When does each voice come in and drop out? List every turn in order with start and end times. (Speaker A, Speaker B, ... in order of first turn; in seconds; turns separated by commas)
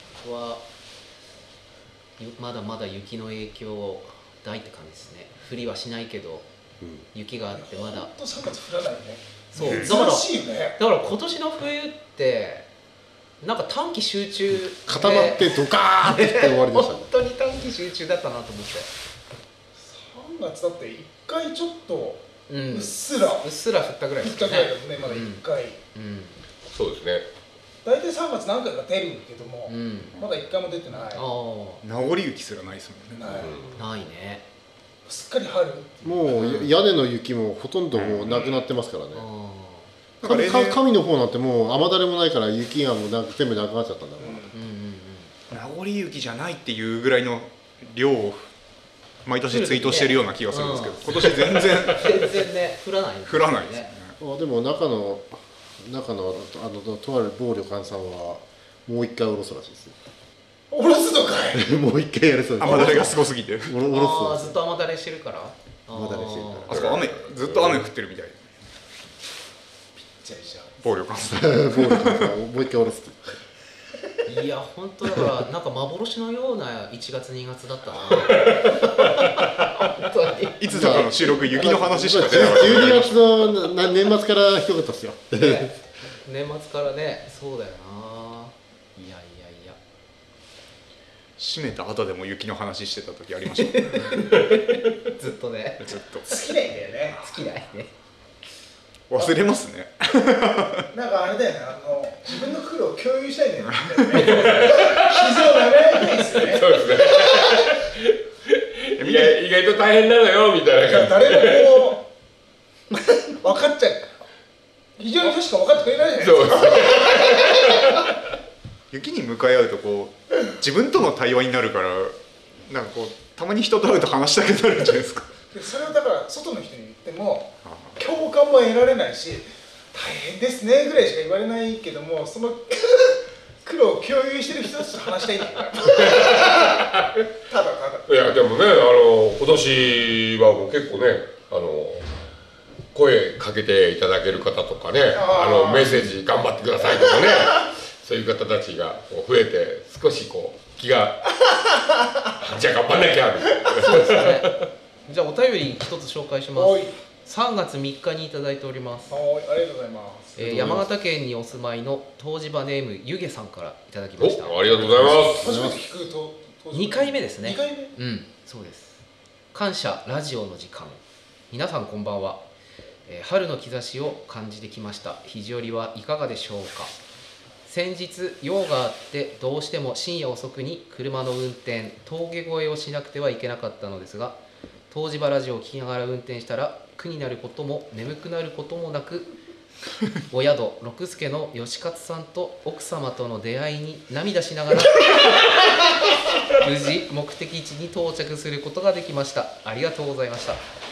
Speaker A: 0.2-0.6, Speaker A: 2.2-6.5, Speaker A: 7.1-8.1, Speaker B: 7.5-10.8, Speaker A: 9.5-12.7, Speaker A: 13.4-18.9, Speaker C: 14.8-17.1, Speaker B: 19.8-23.5, Speaker A: 22.5-26.4, Speaker B: 24.2-25.8, Speaker D: 26.7-27.2, Speaker B: 27.8-31.2, Speaker A: 29.7-30.2, Speaker A: 31.1-31.8, Speaker E: 31.8-33.4, Speaker B: 33.1-33.6, Speaker D: 33.3-33.7, Speaker A: 33.7-34.4, Speaker B: 35.0-36.4, Speaker C: 36.0-39.2, Speaker A: 36.3-36.7, Speaker E: 38.0-38.3, Speaker B: 38.3-38.6, Speaker A: 39.1-39.9, Speaker E: 40.2-40.8, Speaker C: 40.2-44.5, Speaker B: 44.2-44.5, Speaker A: 44.5-45.3, Speaker E: 45.5-48.5, Speaker E: 49.2-52.5, Speaker A: 49.5-53.9, Speaker E: 53.2-54.1, Speaker C: 54.2-60.0, Speaker B: 60.7-61.7, Speaker C: 61.5-64.6, Speaker E: 62.6-63.8, Speaker A: 63.9-66.8, Speaker C: 65.9-66.8, Speaker E: 66.7-68.4, Speaker D: 66.7-67.4, Speaker B: 70.0-70.8, Speaker E: 70.8-72.3, Speaker C: 71.2-73.3, Speaker A: 74.2-81.1, Speaker E: 80.6-83.2, Speaker C: 80.7-85.7, Speaker D: 82.2-83.0, Speaker A: 85.4-85.7, Speaker A: 86.2-89.8, Speaker E: 91.4-94.2, Speaker A: 93.6-96.0, Speaker E: 95.8-96.3, Speaker B: 96.3-97.3, Speaker A: 97.2-97.9, Speaker E: 99.1-100.9, Speaker B: 100.9-107.6, Speaker E: 103.8-104.2, Speaker D: 104.1-112.0, Speaker E: 109.0-109.4, Speaker B: 110.8-112.0, Speaker B: 112.9-114.1, Speaker B: 115.0-117.8, Speaker D: 116.2-118.0, Speaker E: 118.9-125.3, Speaker B: 125.5-136.8, Speaker E: 127.6-128.0, Speaker D: 135.9-137.1, Speaker B: 137.5-138.1, Speaker D: 138.1-142.1, Speaker D: 142.9-151.3, Speaker B: 145.1-146.0, Speaker D: 152.4-154.4, Speaker A: 153.7-159.2, Speaker B: 156.5-156.9, Speaker B: 159.1-160.7, Speaker A: 160.4-165.3, Speaker D: 164.2-165.5, Speaker C: 165.0-165.8, Speaker B: 165.3-167.9, Speaker A: 166.7-169.0, Speaker A: 169.5-171.0, Speaker A: 171.5-172.4, Speaker A: 173.1-176.9, Speaker A: 177.7-184.4, Speaker A: 184.9-189.3, Speaker A: 190.3-195.1, Speaker A: 196.5-200.6